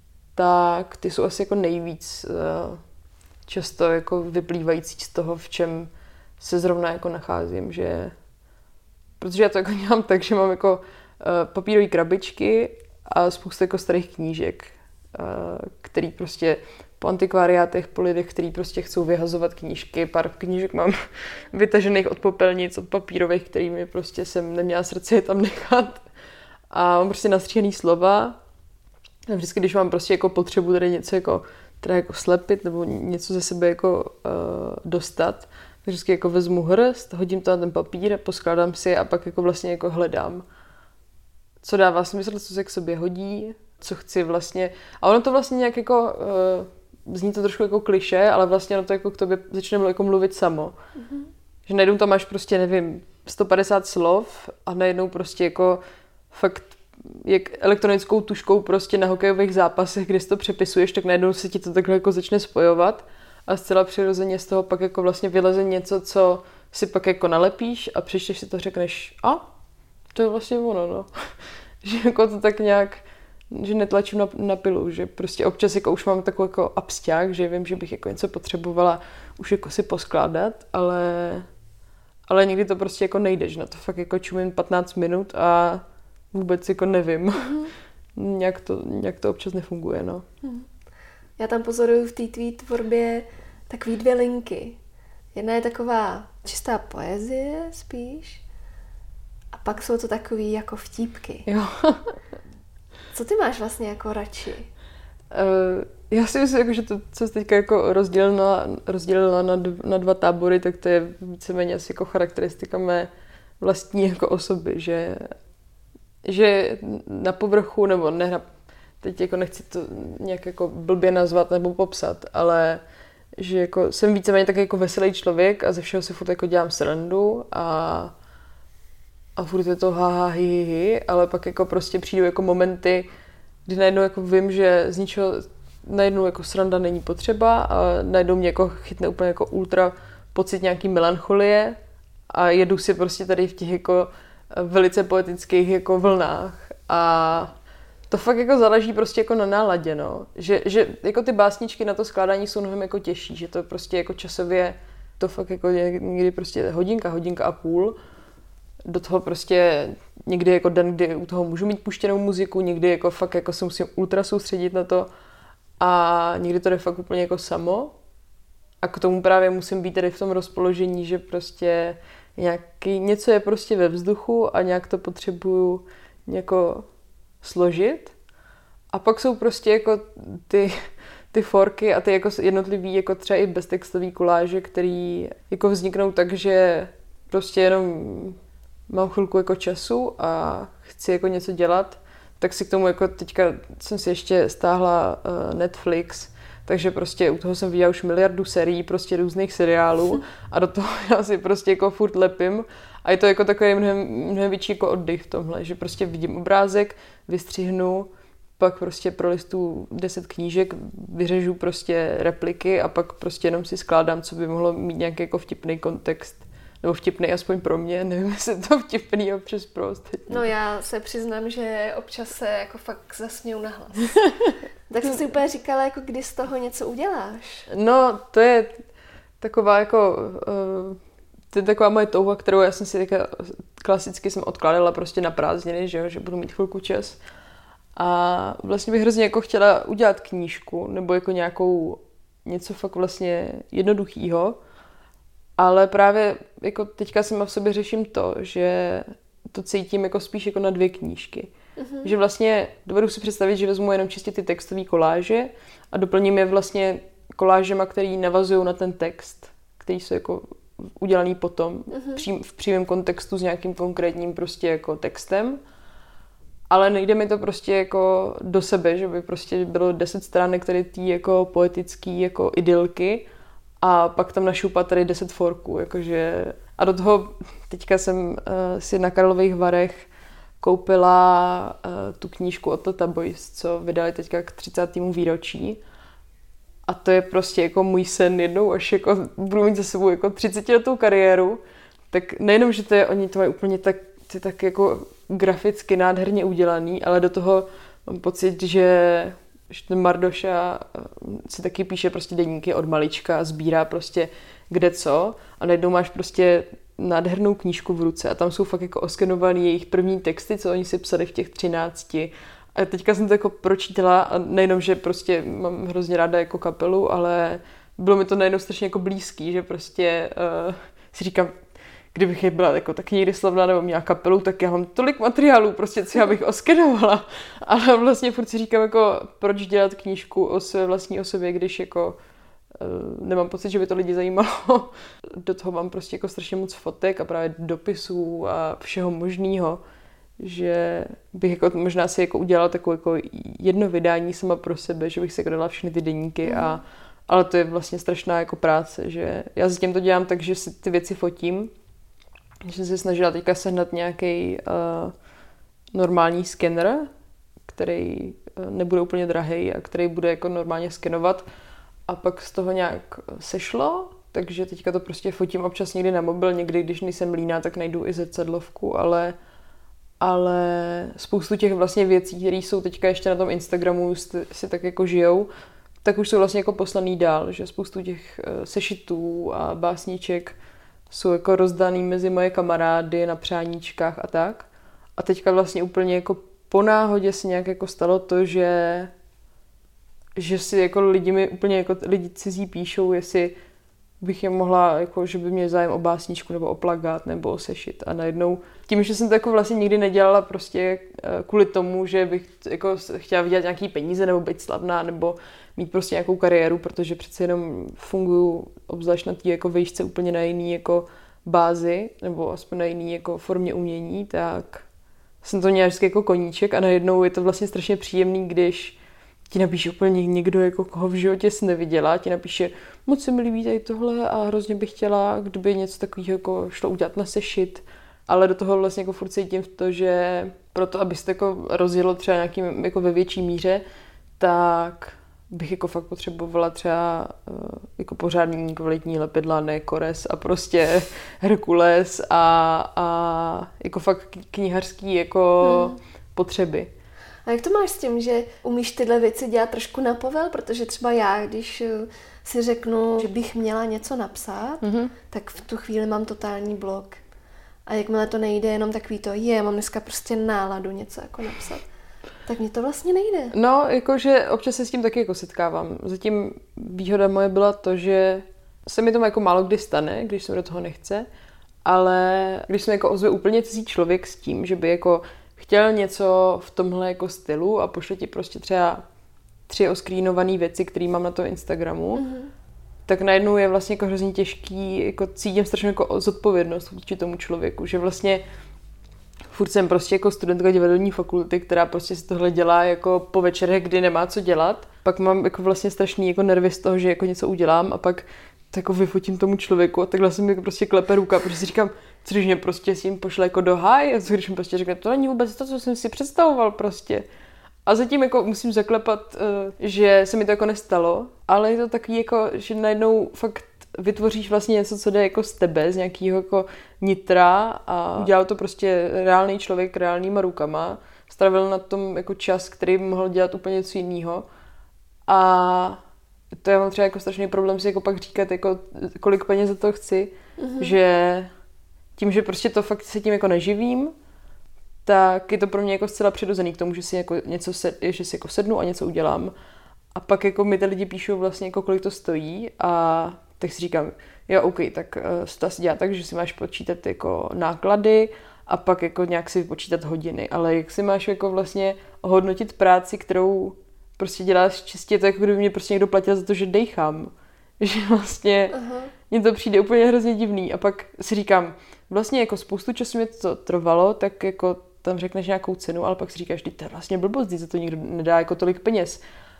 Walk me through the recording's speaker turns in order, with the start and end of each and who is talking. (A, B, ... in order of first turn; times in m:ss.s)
0:00.4-0:02.8 A
0:03.5-0:08.1 A
0:09.2-0:21.0 A
0:21.5-0:26.0 A
0:26.7-0:28.4 A
0:29.3-0:40.4 A
0:41.6-0:50.8 A
0:51.0-0:51.3 B
0:51.7-1:09.5 A
1:10.1-1:11.1 A
1:11.8-1:21.5 A
1:22.3-1:30.2 A
1:27.4-1:27.7 B
1:30.4-1:30.7 B
1:31.4-1:34.8 B
1:35.4-1:38.4 B
1:39.5-1:41.5 B
1:41.5-1:42.0 A
1:43.1-1:44.7 B
1:45.3-1:53.1 A
1:53.6-1:55.3 A
1:56.2-1:58.5 A
1:59.0-2:02.8 A
2:03.4-2:08.1 A
2:09.4-2:13.1 A
2:13.7-2:21.8 A
2:22.3-2:27.6 A
2:28.1-2:38.0 A
2:38.9-2:45.1 A
2:45.8-2:48.0 A
2:48.8-2:56.9 A
2:57.4-2:58.2 A
2:58.9-3:00.8 A
3:01.3-3:08.4 A
3:08.9-3:40.5 A
3:40.3-3:44.3 B
3:44.9-3:47.7 B
3:47.7-3:48.8 A
3:49.4-3:51.0 A
3:51.5-3:57.2 A
3:58.0-4:04.6 A
4:05.6-4:11.5 A
4:11.8-4:12.1 B
4:12.0-4:25.6 A
4:21.9-4:22.2 B
4:26.7-4:33.3 A
4:33.8-4:40.1 A
4:40.6-4:45.8 A
4:46.9-5:21.5 A
5:22.1-5:32.2 A
5:32.7-5:39.8 A
5:40.4-5:51.7 A
5:46.4-5:46.8 B
5:52.6-5:55.1 A
5:55.9-5:57.1 A
5:57.7-6:01.5 A
6:02.1-6:09.4 A
6:10.2-6:15.5 A
6:16.0-6:20.6 A
6:21.1-6:29.1 A
6:30.4-6:33.6 A
6:34.2-6:54.9 A
6:55.4-6:59.0 A
6:59.5-7:13.8 A
7:14.4-7:26.9 A
7:25.6-7:26.0 B
7:27.5-7:37.2 B
7:34.8-7:35.1 A
7:37.9-7:41.8 B
7:42.5-7:43.6 B
7:43.5-7:51.3 A
7:51.8-7:59.0 A
7:59.7-8:02.3 A
8:02.2-8:02.5 B
8:03.1-8:08.4 A
8:09.5-8:27.2 A
8:27.9-8:44.4 A
8:45.3-8:46.0 A
8:46.6-8:51.5 A
8:50.6-8:51.0 B
8:52.2-8:54.1 A
8:55.0-8:59.5 A
9:00.1-9:18.8 A
9:18.7-9:19.1 B
9:19.3-9:29.2 A